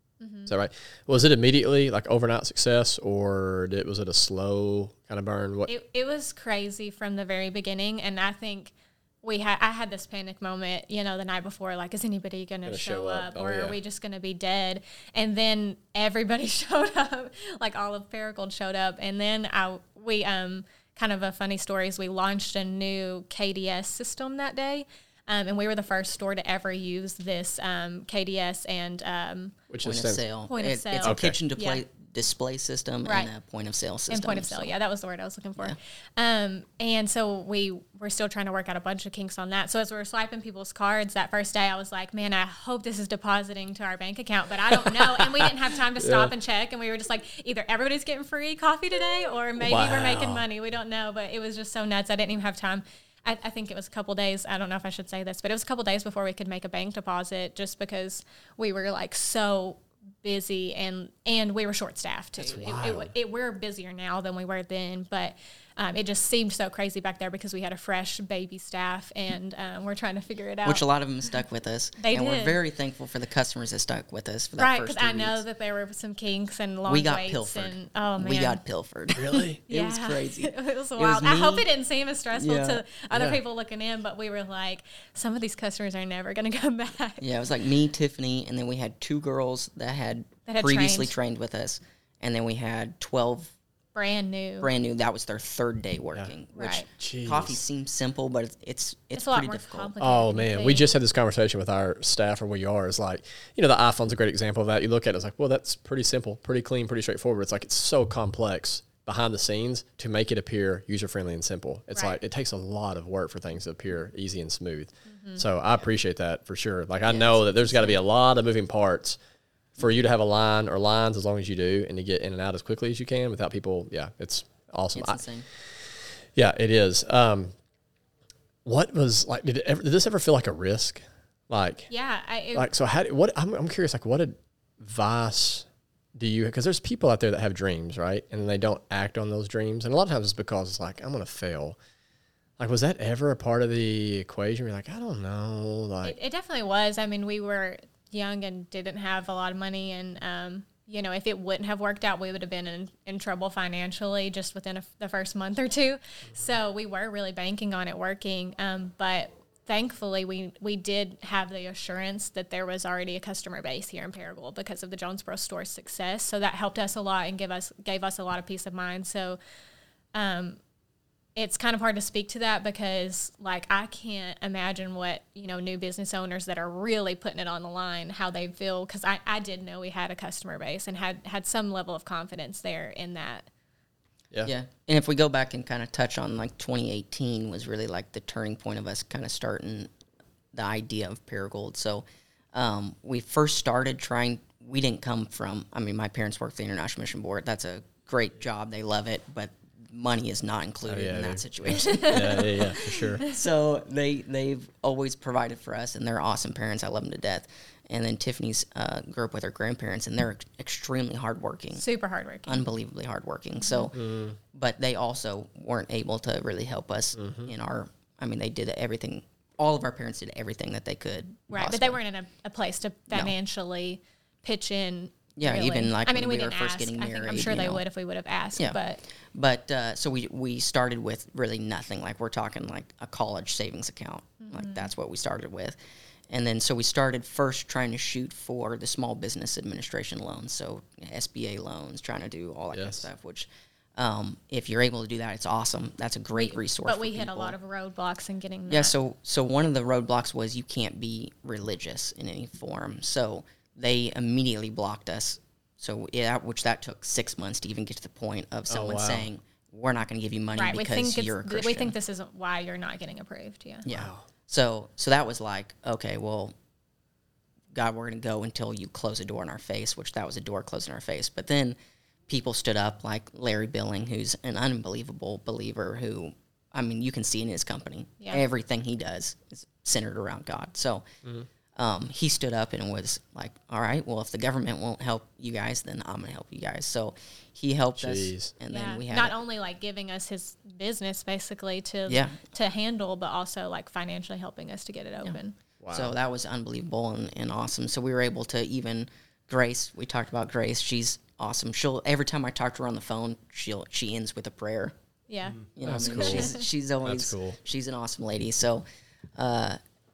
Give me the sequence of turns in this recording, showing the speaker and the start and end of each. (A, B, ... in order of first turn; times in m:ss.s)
0:00.2-0:00.5 A
0:00.5-0:05.7 B
0:05.7-0:29.6 A
0:12.6-0:13.8 B
0:29.7-0:30.2 B
0:29.8-0:34.8 C
0:30.5-0:31.8 A
0:31.0-0:31.4 B
0:33.0-0:33.3 A
0:34.1-1:10.8 A
0:44.9-0:46.3 B
0:49.6-0:50.4 B
1:02.4-1:03.1 B
1:10.6-1:15.4 C
1:12.0-1:12.6 A
1:14.6-1:18.6 A
1:16.9-1:21.7 C
1:19.2-1:19.6 B
1:19.7-1:27.2 A
1:22.3-1:22.8 C
1:23.1-1:23.4 B
1:27.2-1:33.5 C
1:30.5-1:31.1 A
1:34.0-1:34.7 A
1:34.6-1:39.9 C
1:36.6-1:36.9 A
1:37.0-1:37.6 B
1:39.2-1:40.9 A
1:40.0-1:59.2 B
1:55.1-1:55.4 A
1:57.1-1:58.0 C
1:59.8-2:05.2 B
2:05.0-2:05.5 C
2:06.4-2:07.5 B
2:08.6-2:11.9 B
2:11.9-2:12.7 A
2:12.5-2:21.8 B
2:22.6-2:26.1 B
2:26.0-2:49.4 A
2:50.1-2:50.6 A
2:51.4-3:03.5 A
3:04.5-3:09.9 C
3:10.5-3:31.8 C
3:20.9-3:23.2 B
3:21.8-3:23.3 A
3:31.8-3:32.6 A
3:32.5-3:42.0 C
3:33.6-3:33.9 A
3:33.9-3:34.4 B
3:37.2-3:37.5 B
3:41.5-3:49.0 A
3:45.4-3:47.8 C
3:49.3-3:55.8 C
3:54.4-3:54.9 A
3:56.3-4:07.6 C
4:02.7-4:03.0 B
4:06.4-4:08.9 A
4:08.7-4:22.0 C
4:18.7-4:19.3 B
4:20.6-4:23.9 A
4:23.8-4:26.5 C
4:23.9-4:24.3 B
4:27.7-4:31.8 C
4:32.3-4:41.0 C
4:41.8-4:49.4 C
4:48.0-4:48.5 B
4:48.7-4:55.6 A
4:52.1-4:52.4 C
4:55.8-4:56.1 B
4:55.9-5:04.9 C
5:05.3-5:06.6 A
5:05.7-5:06.5 B
5:05.7-5:08.8 C
5:07.0-5:07.6 B
5:09.4-5:09.8 C